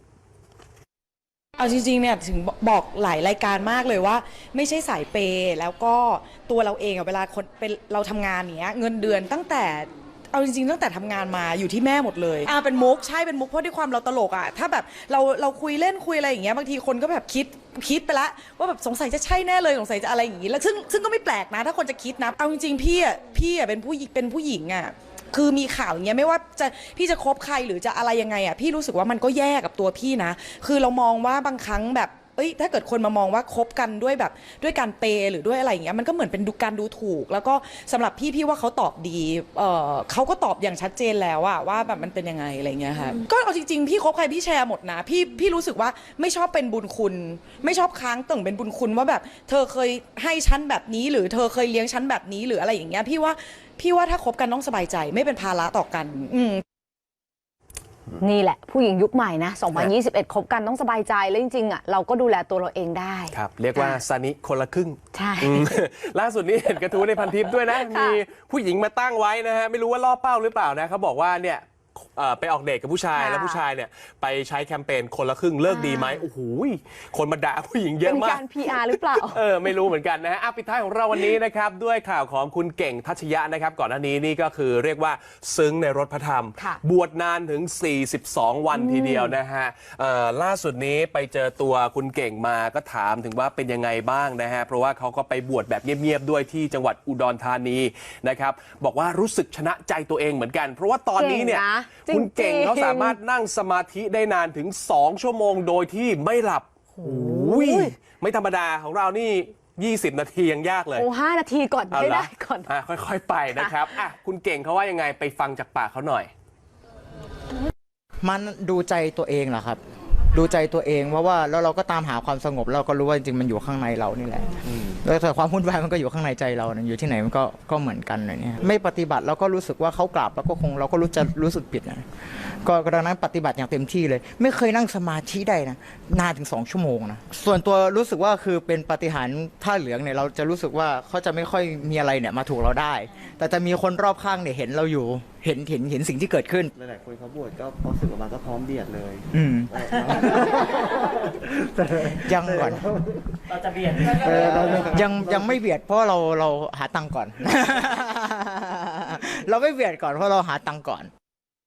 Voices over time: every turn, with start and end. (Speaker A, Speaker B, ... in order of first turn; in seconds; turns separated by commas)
Speaker A: 1.6-56.6, Speaker B: 58.2-64.0, Speaker C: 63.3-111.1, Speaker B: 65.1-65.7, Speaker B: 67.7-68.2, Speaker B: 73.1-73.6, Speaker B: 75.7-76.2, Speaker B: 78.0-79.8, Speaker B: 88.7-89.3, Speaker B: 101.2-103.2, Speaker B: 107.0-107.9, Speaker B: 110.9-112.7, Speaker C: 111.9-116.3, Speaker B: 113.5-113.8, Speaker D: 118.2-119.8, Speaker D: 120.3-132.0, Speaker D: 132.6-146.7, Speaker E: 146.7-150.9, Speaker D: 149.3-149.7, Speaker D: 152.2-152.8, Speaker E: 152.6-152.8, Speaker E: 154.1-155.5, Speaker D: 154.1-161.1